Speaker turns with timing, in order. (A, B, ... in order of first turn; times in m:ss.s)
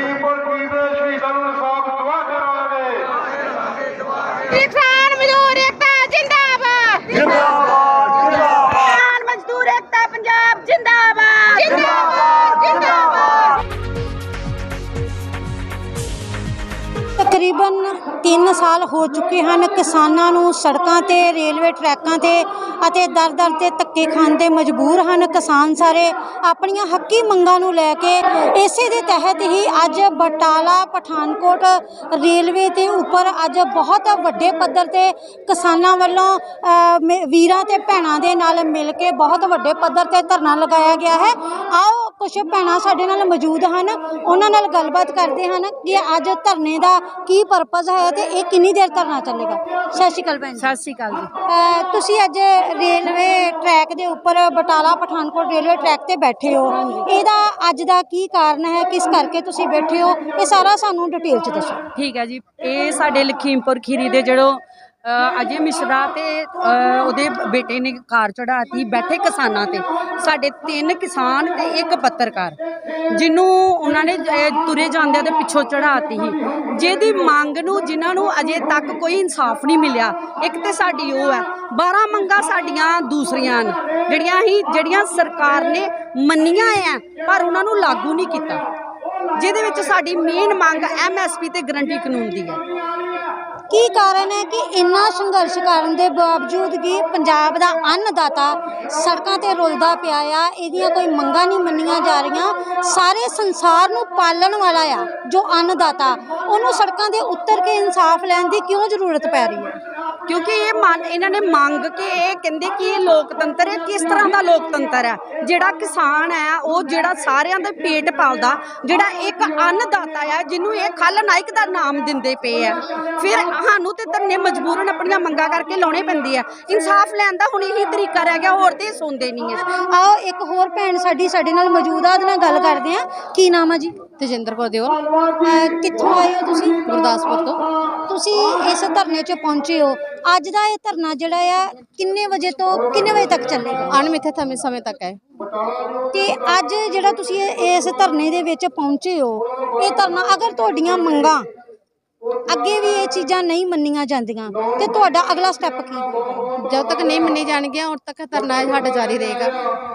0:04.5-0:07.5 A
0:08.1-0:13.6 A
0:17.2-0:50.8 B
0:50.6-0:51.3 A
0:51.5-1:01.8 B
0:56.4-0:57.2 A
1:01.9-1:12.6 A
1:13.1-1:28.6 A
1:29.4-1:32.6 A
1:33.7-1:49.8 B
1:50.3-2:09.6 A
2:09.6-2:14.0 B
2:14.2-2:15.0 C
2:15.4-2:16.8 B
2:16.9-2:17.6 C
2:18.1-2:23.9 B
2:23.9-2:25.2 C
2:26.1-2:31.5 B
2:32.5-2:36.1 B
2:36.6-2:39.6 C